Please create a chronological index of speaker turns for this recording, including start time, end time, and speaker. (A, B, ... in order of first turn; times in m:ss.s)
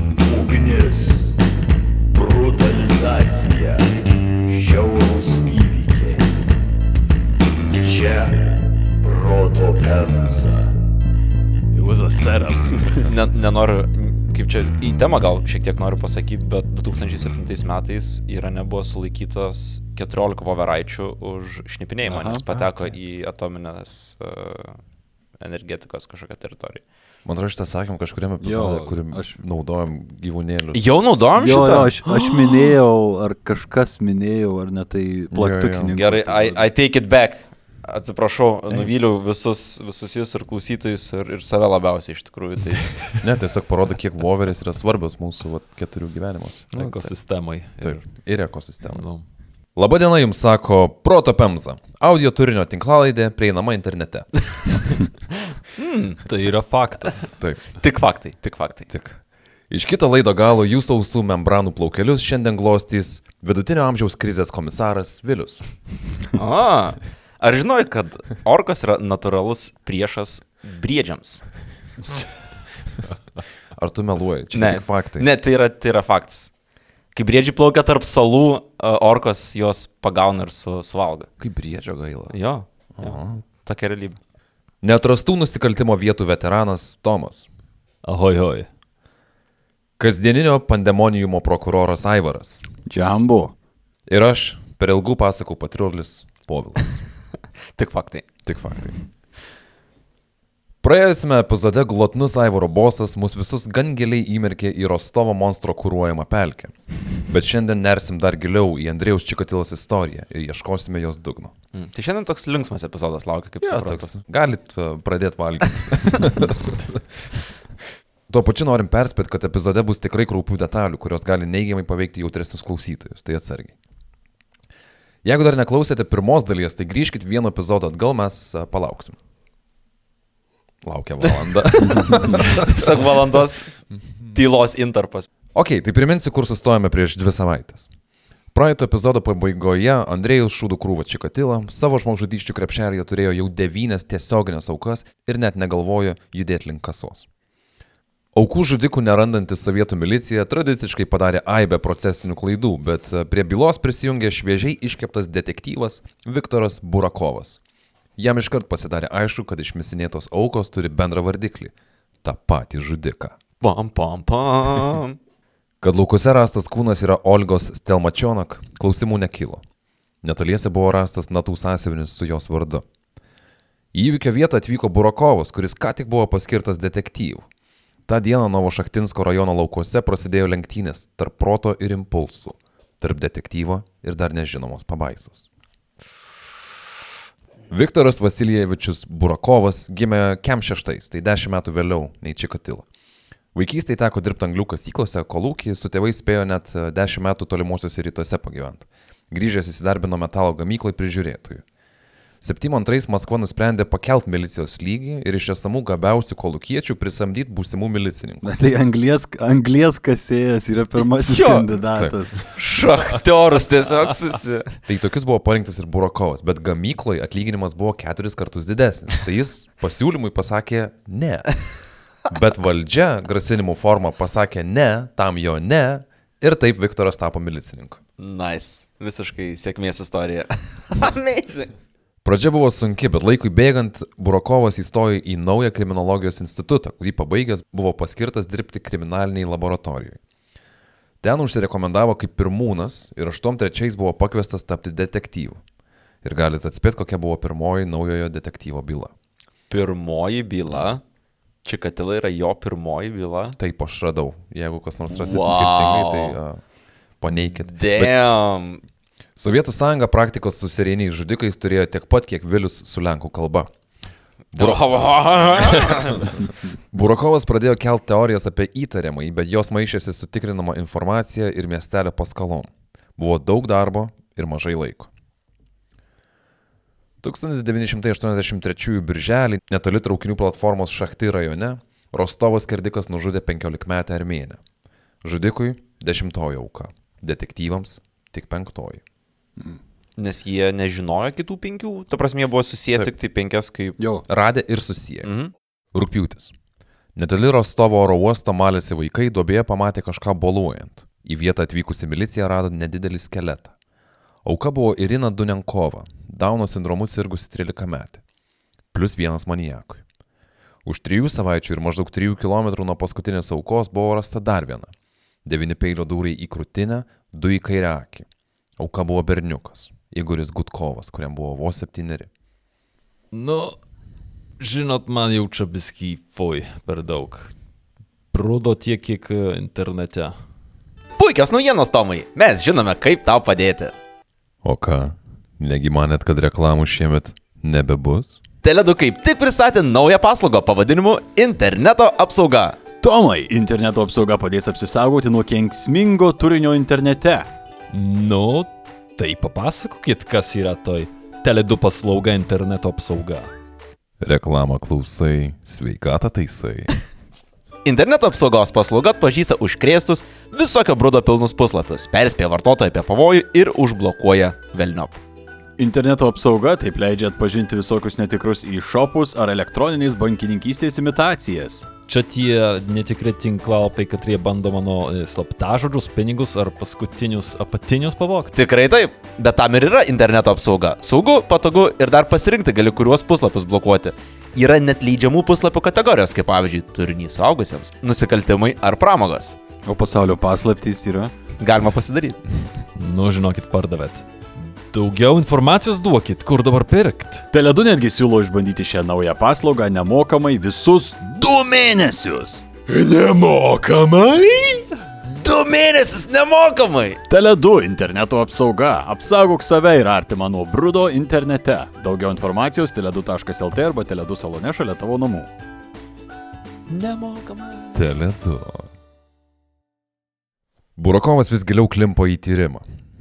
0:00.2-0:01.3 A
0:02.2-0:03.9 A
0:04.5-0:06.2 A
0:07.8-0:08.4 A
0:09.0-0:10.7 A
0:11.8-0:12.4 B
0:12.0-0:12.9 A
0:12.8-0:24.8 C
0:22.0-0:22.4 A
0:25.4-0:26.8 C
0:27.2-0:30.8 D
0:28.4-0:29.4 A
0:30.7-0:32.7 C
0:31.4-0:36.7 A
0:35.3-0:35.9 D
0:36.0-0:43.0 C
0:43.2-0:46.7 D
0:46.7-0:47.1 C
0:46.7-0:48.0 B
0:47.8-0:49.0 D
0:48.9-0:49.2 B
0:49.8-0:55.1 D
0:55.8-0:56.2 C
0:56.2-0:57.4 B
0:57.8-0:58.9 C
0:58.9-1:05.8 D
1:06.3-1:11.4 C
1:13.8-1:15.3 D
1:14.5-1:16.5 C
1:17.1-1:21.3 C
1:21.4-1:22.3 D
1:22.3-1:24.2 C
1:23.0-1:23.4 D
1:24.8-1:27.5 D
1:28.0-1:28.7 B
1:30.0-1:32.6 D
1:32.9-1:33.5 A
1:34.1-1:37.0 D
1:37.8-1:38.3 C
1:38.4-1:39.0 D
1:40.8-1:51.5 D
1:51.7-1:54.1 C
1:53.6-1:57.2 D
1:58.3-2:03.8 D
2:05.2-2:09.2 D
2:10.8-2:12.7 D
2:11.8-2:15.3 C
2:15.5-2:17.9 D
2:18.5-2:27.3 D
2:28.3-2:37.6 D
2:38.2-2:43.4 D
2:43.6-2:45.2 C
2:45.8-2:49.6 D
2:50.2-2:52.8 D
2:53.9-2:57.5 D
2:58.1-3:05.5 D
3:07.7-3:12.8 D
3:13.5-3:21.6 D
3:22.4-3:28.5 D
3:28.4-3:32.5 A
3:31.0-3:31.7 C
3:32.5-3:34.8 C
3:34.8-3:48.0 D
3:48.2-3:51.7 C
3:52.2-4:00.2 D
4:01.2-4:05.6 D
4:06.2-4:09.1 D
4:09.7-4:11.0 C
4:11.6-4:13.6 C
4:13.6-4:16.6 D
4:15.2-4:16.4 C
4:17.2-4:18.2 D
4:17.5-4:18.8 C
4:19.4-4:23.7 D
4:24.5-4:25.0 D
4:24.6-4:26.3 C
4:25.6-4:35.1 D
4:37.2-4:44.6 D
4:45.2-4:49.0 D
4:50.2-4:54.0 C
4:54.0-4:54.2 A
4:54.3-4:55.3 D
4:55.2-4:55.5 C
4:55.9-4:56.5 D
4:57.1-5:03.7 D
5:04.4-5:08.2 D
5:08.9-5:10.0 D
5:10.8-5:14.9 D
5:15.4-5:18.2 D
5:18.8-5:22.3 D
5:23.3-5:23.8 B
5:24.6-5:27.5 B
5:28.3-5:30.4 B
5:31.2-5:33.9 C
5:34.6-5:38.4 D
5:38.6-5:42.8 C
5:43.0-5:47.5 A
5:47.9-5:53.5 B
5:54.2-5:56.9 D
5:57.8-6:05.2 C
6:05.8-6:11.9 A
6:12.1-6:18.5 B
6:18.5-6:29.6 C
6:29.8-6:31.3 A
6:31.6-6:32.4 C
6:33.0-6:37.5 B
6:37.5-6:44.9 A
6:45.2-6:47.2 C
6:47.3-6:55.5 A
6:56.9-6:58.0 C
6:57.9-6:58.9 D
7:01.0-7:02.8 D